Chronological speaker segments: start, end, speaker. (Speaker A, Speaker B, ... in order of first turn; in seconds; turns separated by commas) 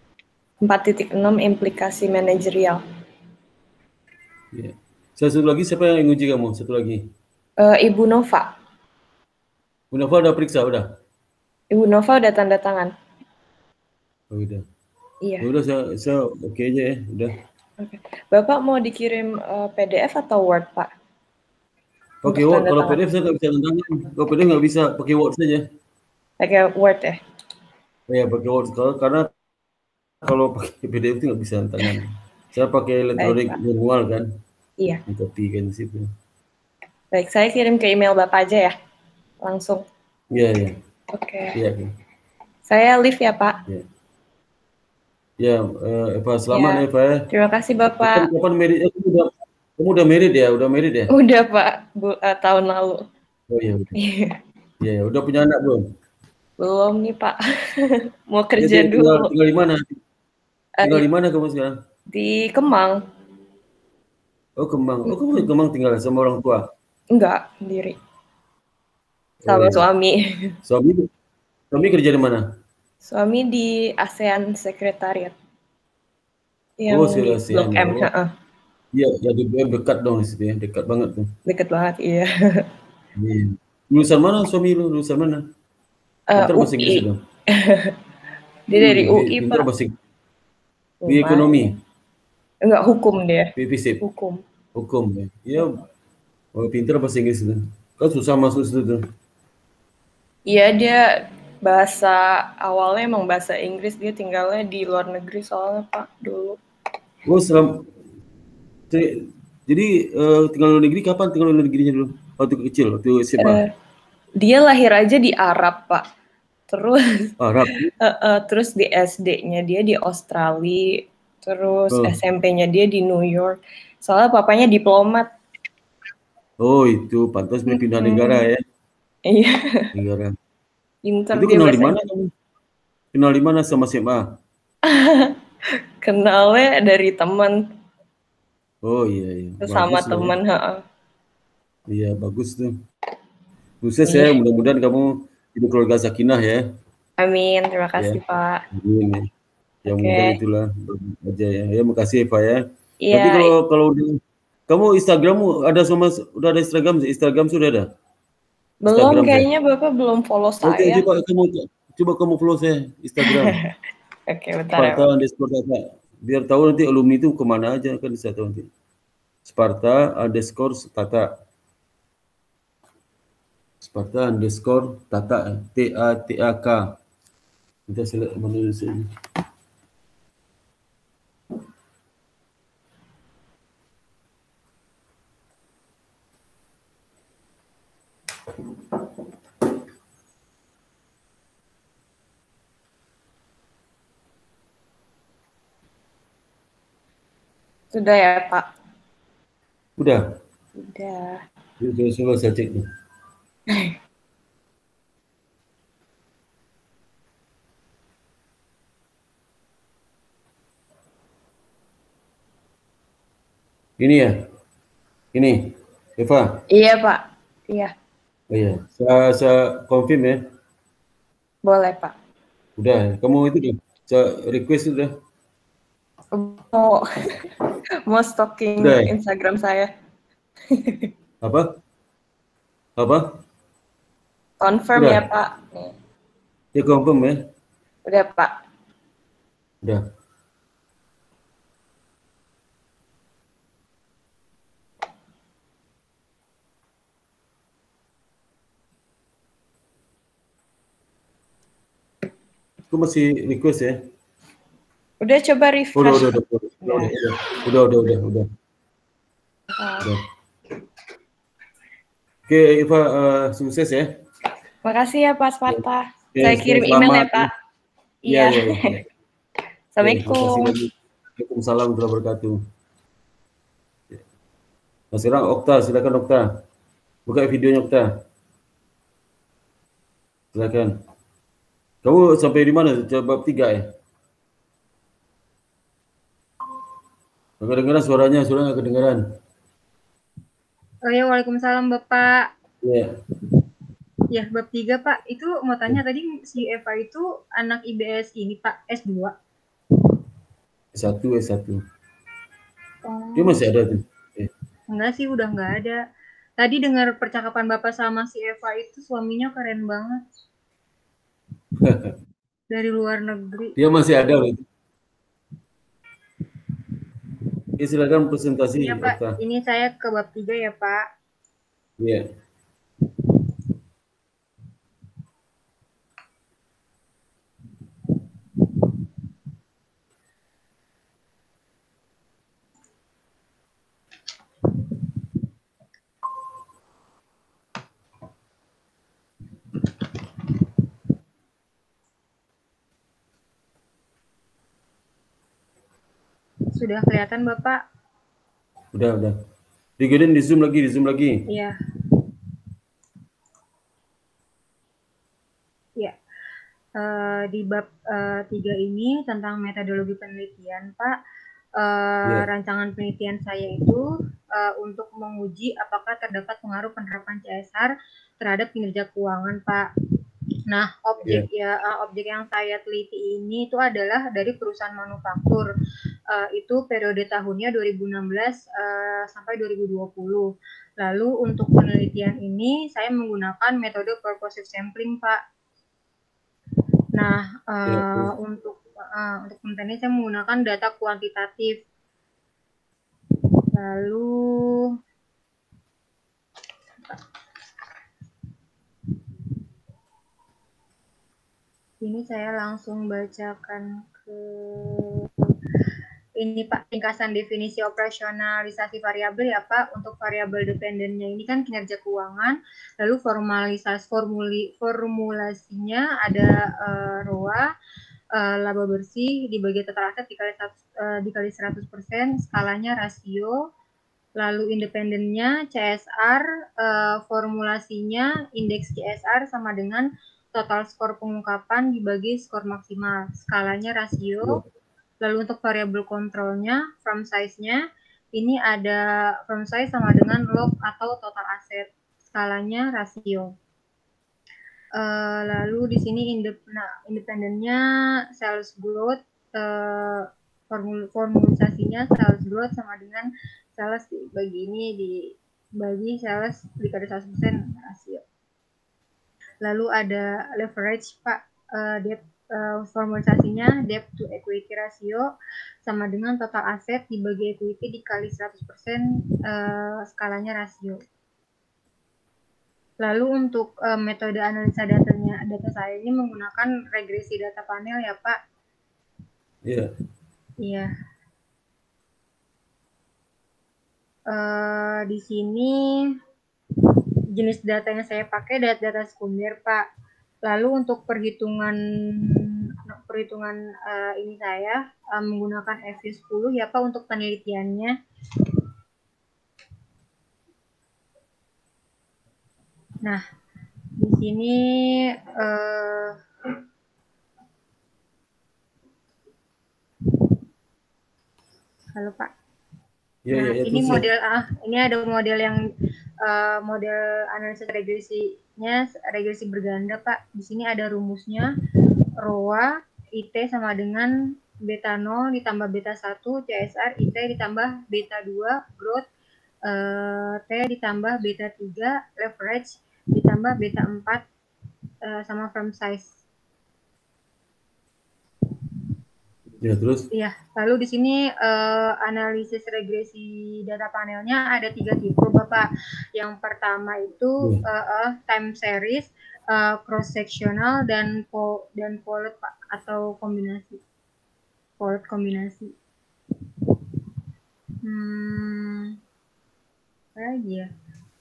Speaker A: 0.6-2.8, Speaker B: 4.5-7.1, Speaker A: 7.6-8.5, Speaker B: 9.9-10.9, Speaker A: 11.7-12.9, Speaker B: 14.3-14.6, Speaker A: 15.2-15.5, Speaker B: 15.4-17.4, Speaker A: 17.8-20.9, Speaker B: 22.2-25.7, Speaker A: 22.3-23.0, Speaker A: 26.4-27.2, Speaker B: 28.1-29.3, Speaker B: 30.2-34.3, Speaker A: 33.2-33.6, Speaker B: 35.1-36.1, Speaker A: 37.1-38.8, Speaker A: 39.4-39.8, Speaker B: 40.3-40.8, Speaker A: 41.1-41.6, Speaker B: 41.5-41.9, Speaker A: 42.7-43.6, Speaker B: 45.4-47.3, Speaker A: 46.5-48.3, Speaker B: 48.0-51.1, Speaker A: 51.1-53.0, Speaker B: 53.5-54.0, Speaker A: 54.0-54.4, Speaker B: 54.8-55.9, Speaker A: 56.6-59.3, Speaker B: 58.6-60.0, Speaker A: 60.8-61.1, Speaker B: 60.8-61.8, Speaker A: 62.1-63.0, Speaker B: 64.6-66.7, Speaker A: 65.1-65.5, Speaker A: 67.1-68.0, Speaker B: 69.4-69.8, Speaker A: 69.5-70.6, Speaker B: 70.7-71.1, Speaker B: 71.7-72.4, Speaker A: 73.0-75.3, Speaker A: 76.8-78.3, Speaker B: 76.9-78.1, Speaker B: 78.9-81.3, Speaker A: 81.5-82.7, Speaker B: 83.2-85.4, Speaker A: 86.3-88.0, Speaker B: 86.3-87.2, Speaker A: 88.7-89.7, Speaker B: 88.7-90.0, Speaker A: 91.0-91.8, Speaker B: 91.1-91.7, Speaker A: 92.6-94.4, Speaker B: 93.6-94.0, Speaker B: 94.8-95.8, Speaker B: 96.5-99.0, Speaker A: 100.5-106.6, Speaker B: 107.2-107.9, Speaker B: 108.9-113.6, Speaker A: 113.4-113.7, Speaker A: 114.4-116.1, Speaker A: 116.7-117.4, Speaker B: 117.4-117.9, Speaker A: 118.0-125.3, Speaker B: 121.9-122.2, Speaker B: 126.6-128.6, Speaker A: 127.7-128.5, Speaker A: 129.3-129.9, Speaker B: 129.9-130.4, Speaker A: 131.1-131.9, Speaker B: 131.3-132.3, Speaker B: 133.1-134.2, Speaker A: 134.9-135.4, Speaker A: 136.0-137.7, Speaker B: 138.8-140.3, Speaker A: 139.6-140.8, Speaker B: 141.9-142.8, Speaker B: 143.8-146.6, Speaker A: 144.1-144.4, Speaker A: 147.2-148.6, Speaker B: 148.7-149.3, Speaker B: 149.9-157.9, Speaker A: 149.9-150.4, Speaker A: 153.0-153.5, Speaker A: 158.8-161.1, Speaker B: 158.9-159.5, Speaker B: 160.6-163.6, Speaker A: 163.2-163.8, Speaker A: 164.3-165.1, Speaker B: 164.8-168.7, Speaker B: 169.5-171.3, Speaker B: 173.8-176.9, Speaker B: 177.9-179.1, Speaker A: 197.9-198.7, Speaker B: 200.0-200.2, Speaker A: 200.8-201.4, Speaker B: 201.8-202.9, Speaker A: 203.7-204.0, Speaker B: 214.0-214.4, Speaker B: 215.3-216.6, Speaker A: 216.7-217.9, Speaker B: 218.5-220.5, Speaker A: 221.6-222.1, Speaker B: 222.8-225.1, Speaker A: 226.3-227.5, Speaker A: 228.1-229.9, Speaker B: 228.8-229.1, Speaker A: 230.7-231.1, Speaker B: 231.4-231.7, Speaker B: 233.0-233.4, Speaker A: 234.6-235.9, Speaker B: 235.0-235.2, Speaker B: 236.8-237.4, Speaker A: 238.1-238.5, Speaker B: 252.9-254.0, Speaker A: 255.2-257.1, Speaker B: 255.9-258.5, Speaker A: 259.8-260.1, Speaker B: 262.5-264.2, Speaker A: 264.9-267.5, Speaker B: 266.4-267.5, Speaker A: 268.2-269.0, Speaker B: 268.3-269.1, Speaker A: 269.9-270.7, Speaker B: 270.0-272.6, Speaker B: 275.1-276.5, Speaker B: 277.3-278.1, Speaker B: 280.5-280.9, Speaker B: 282.0-283.9, Speaker B: 287.6-289.2, Speaker C: 291.1-292.5, Speaker B: 292.8-293.1, Speaker C: 294.3-299.3, Speaker B: 300.9-301.8, Speaker C: 303.1-303.6, Speaker B: 303.4-304.5, Speaker C: 304.9-306.0, Speaker C: 306.6-310.2, Speaker B: 311.8-312.1, Speaker C: 312.7-313.8, Speaker B: 313.8-314.6, Speaker B: 317.8-319.4, Speaker C: 318.8-321.0, Speaker C: 346.8-347.8, Speaker B: 348.9-349.4, Speaker B: 350.0-351.4, Speaker C: 351.5-352.1, Speaker C: 357.0-361.1, Speaker C: 361.8-369.9, Speaker C: 370.7-375.7, Speaker C: 376.3-380.5, Speaker C: 381.0-385.4, Speaker C: 387.1-391.8, Speaker B: 387.9-388.3, Speaker C: 393.7-394.9, Speaker C: 402.0-405.5, Speaker C: 406.4-417.7, Speaker C: 418.4-423.6, Speaker C: 424.4-434.6, Speaker C: 435.2-437.8, Speaker C: 438.4-443.5, Speaker C: 445.0-447.8, Speaker C: 448.4-458.2, Speaker C: 459.6-465.3, Speaker C: 465.8-471.0, Speaker C: 473.0-478.4, Speaker C: 480.6-480.9, Speaker C: 484.3-485.8, Speaker C: 487.4-489.9, Speaker C: 490.5-498.5, Speaker C: 504.0-506.5, Speaker C: 511.9-512.3, Speaker B: 513.2-514.0, Speaker C: 513.3-515.6, Speaker C: 516.2-521.5, Speaker C: 522.2-524.1, Speaker C: 524.7-529.0, Speaker C: 529.7-534.2, Speaker C: 535.0-536.1, Speaker B: 539.6-540.0, Speaker C: 540.1-553.8, Speaker C: 554.8-555.7, Speaker C: 557.8-559.0, Speaker C: 560.2-560.7